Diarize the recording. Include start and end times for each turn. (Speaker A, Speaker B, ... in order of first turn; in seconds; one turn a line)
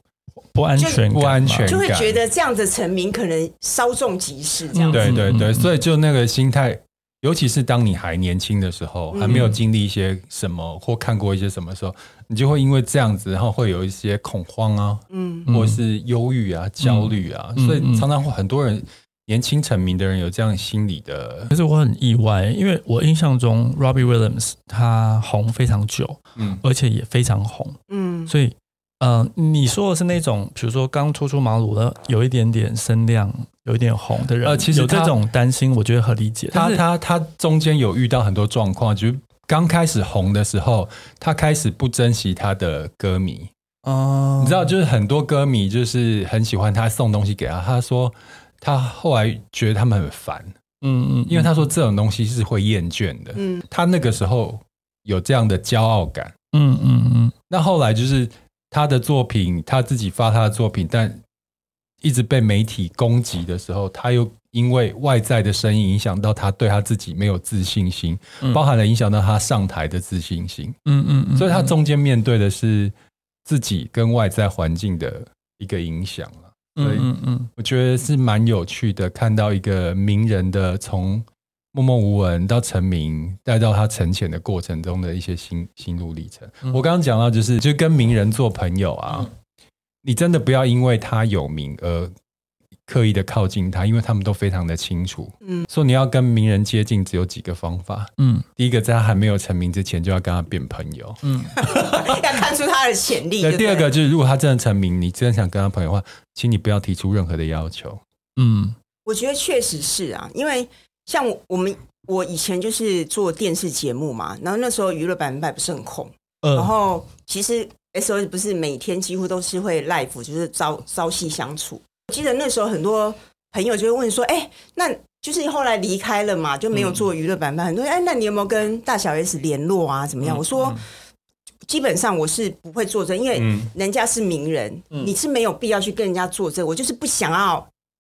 Speaker A: 0.5-1.8
Speaker B: 0.8-1.1
Speaker C: 1.1-2.2
Speaker B: 1.6-5.2
Speaker A: 4.7-5.7
Speaker C: 4.9-21.5
Speaker B: 9.1-9.5
Speaker A: 9.2-9.6
Speaker B: 15.1-15.5
Speaker A: 15.5-15.8
Speaker A: 16.8-18.1
Speaker A: 21.5-36.8
Speaker B: 27.9-28.3
Speaker C: 34.4-35.2
Speaker C: 36.5-43.5
Speaker A: 43.9-44.6
Speaker C: 44.4-50.5
Speaker A: 50.8-51.5
Speaker C: 51.3-56.3
Speaker B: 53.4-53.6
Speaker A: 56.5-57.3
Speaker C: 57.5-61.2
Speaker C: 62.0-70.8
Speaker A: 70.9-71.7
Speaker C: 71.3-72.9
Speaker C: 73.5-89.3
Speaker A: 76.8-77.5
Speaker C: 90.0-92.1
Speaker C: 92.9-102.1
Speaker A: 98.2-98.5
Speaker A: 101.2-101.6
Speaker B: 101.6-103.9
Speaker C: 103.4-108.0
Speaker A: 108.4-108.8
Speaker B: 109.1-130.8
Speaker A: 116.4-116.7
Speaker B: 131.7-137.7
Speaker C: 133.4-133.7